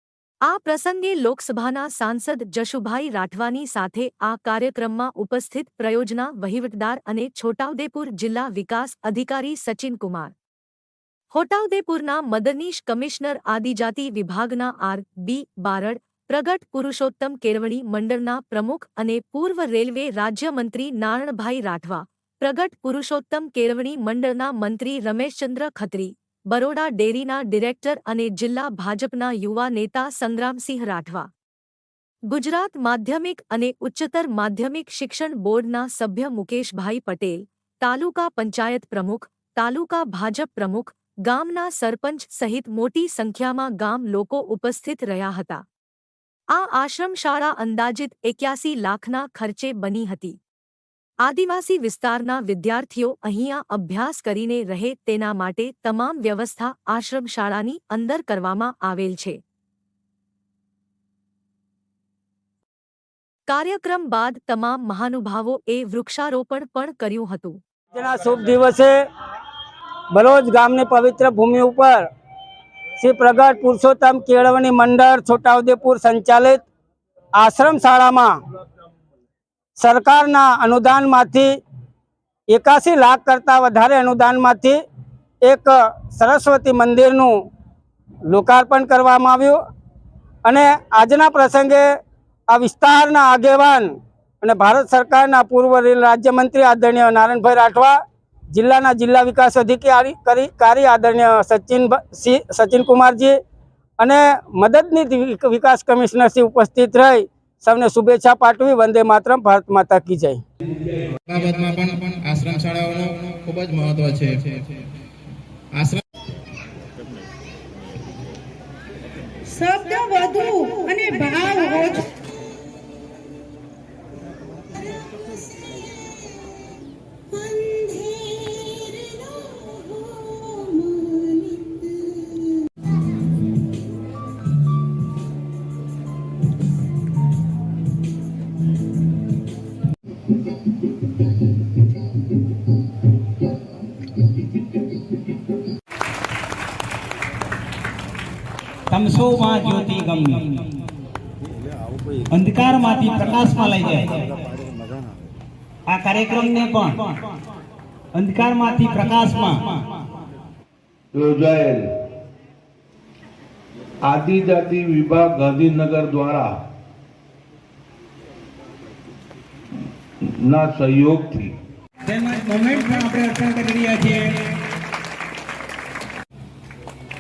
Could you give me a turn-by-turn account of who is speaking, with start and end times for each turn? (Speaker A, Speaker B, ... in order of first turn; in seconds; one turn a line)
Speaker A: 0.5-10.3
Speaker A: 11.3-31.3
Speaker A: 32.3-45.6
Speaker A: 46.5-50.4
Speaker A: 51.2-59.4
Speaker A: 63.5-67.6
Speaker B: 68.0-69.0
Speaker B: 70.2-72.1
Speaker B: 73.0-76.6
Speaker B: 77.4-78.4
Speaker B: 79.8-81.5
Speaker B: 82.5-84.8
Speaker B: 85.4-87.3
Speaker B: 88.3-89.6
Speaker B: 90.5-91.9
Speaker B: 92.5-98.0
Speaker B: 98.5-103.4
Speaker B: 104.0-110.4
Speaker C: 111.3-114.7
Speaker C: 115.7-116.0
Speaker D: 119.5-122.1
Speaker D: 127.5-131.9
Speaker E: 148.9-150.6
Speaker E: 152.3-154.3
Speaker E: 155.9-157.2
Speaker E: 158.1-159.8
Speaker F: 161.1-161.9
Speaker F: 164.1-166.6
Speaker F: 170.2-171.6
Speaker E: 172.0-174.6